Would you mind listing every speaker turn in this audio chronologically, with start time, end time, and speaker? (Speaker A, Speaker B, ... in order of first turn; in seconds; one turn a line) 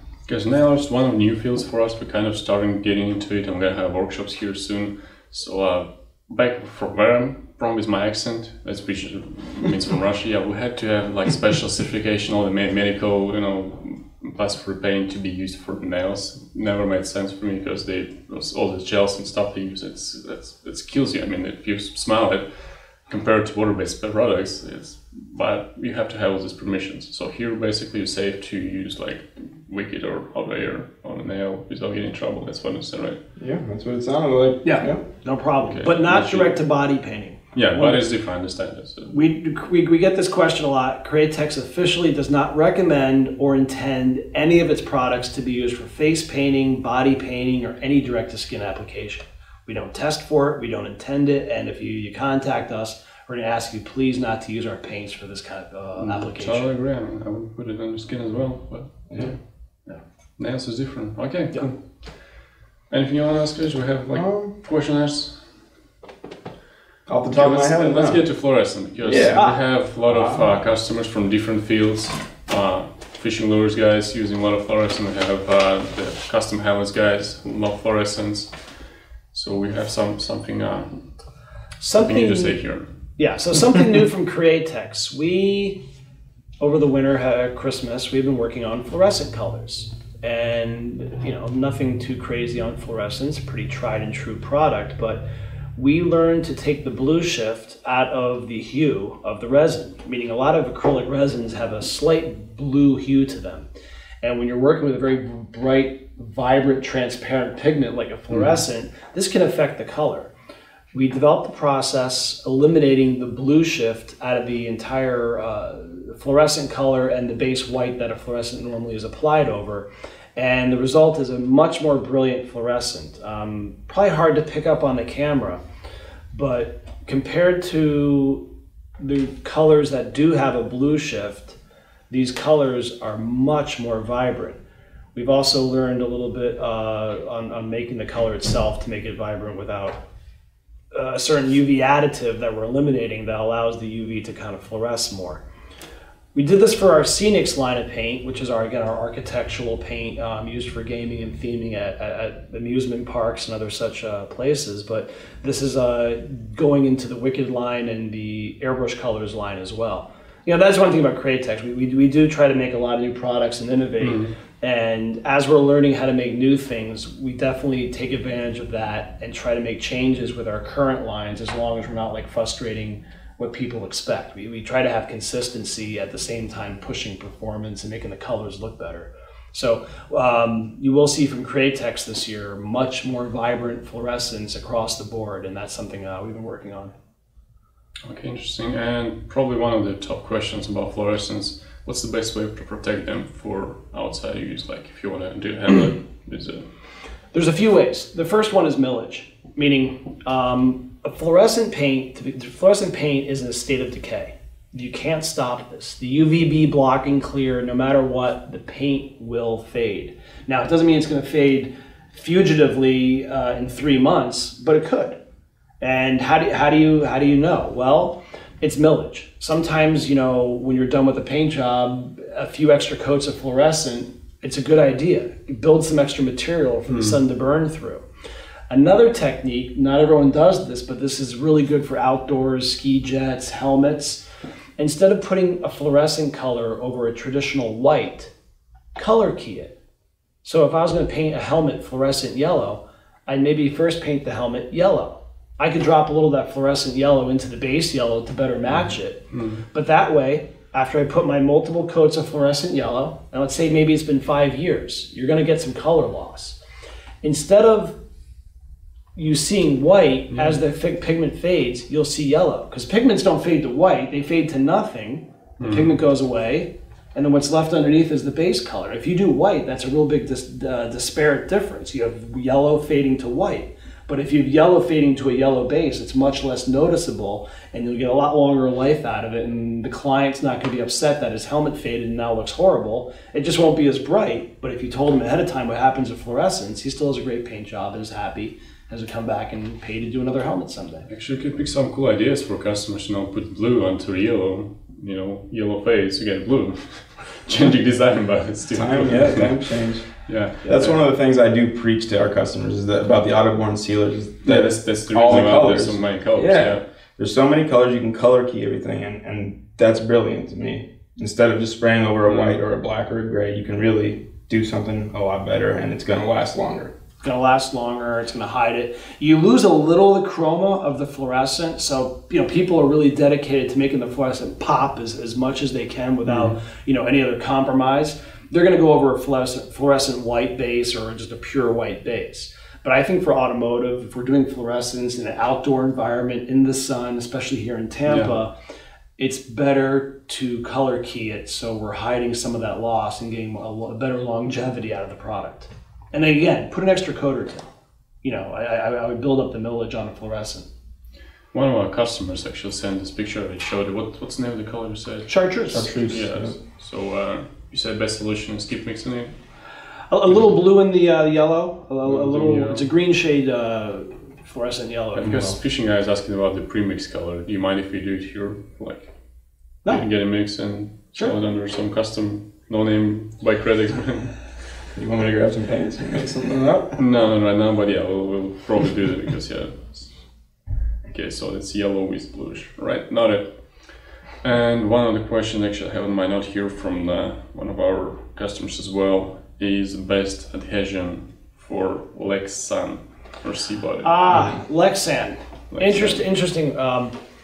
Speaker A: 0.3-33.2
Speaker B: 33.4-35.0
Speaker C: 34.6-38.0
Speaker A: 35.7-36.5
Speaker A: 37.5-39.1
Speaker C: 39.1-56.7
Speaker A: 56.0-59.3
Speaker A: 60.4-61.8
Speaker A: 62.9-65.4
Speaker B: 64.1-64.5
Speaker B: 67.1-68.2
Speaker A: 67.3-78.5
Speaker B: 69.0-69.5
Speaker B: 70.1-70.5
Speaker A: 79.3-81.1
Speaker C: 81.8-82.6
Speaker A: 81.9-82.9
Speaker C: 83.2-85.8
Speaker C: 86.6-95.2
Speaker C: 95.8-103.7
Speaker C: 104.2-110.3
Speaker C: 110.9-125.6
Speaker C: 126.3-128.4
Speaker C: 129.0-131.6
Speaker C: 132.1-134.6
Speaker C: 135.2-140.0
Speaker C: 140.9-145.4
Speaker C: 146.3-186.9
Speaker A: 164.0-164.3
Speaker A: 188.0-196.7
Speaker C: 197.3-215.2
Speaker C: 215.8-228.1
Speaker A: 226.9-227.2
Speaker C: 228.7-234.2
Speaker C: 234.8-238.3
Speaker C: 239.0-239.8
Speaker C: 240.4-256.6
Speaker A: 249.3-249.6
Speaker C: 257.2-257.9
Speaker C: 259.2-291.1
Speaker A: 265.6-266.0
Speaker A: 291.1-301.0
Speaker B: 298.7-316.9
Speaker A: 304.4-306.9
Speaker A: 312.3-312.6
Speaker C: 317.2-338.5
Speaker A: 326.3-326.6
Speaker C: 339.2-347.7
Speaker C: 348.2-350.7
Speaker A: 351.5-359.4
Speaker C: 355.3-355.9
Speaker B: 355.7-356.6
Speaker C: 360.1-365.5
Speaker A: 362.1-362.8
Speaker A: 365.1-369.1
Speaker A: 369.8-374.6
Speaker B: 374.9-377.0
Speaker A: 377.0-380.2
Speaker A: 381.1-394.2
Speaker C: 394.0-397.1
Speaker A: 395.7-396.2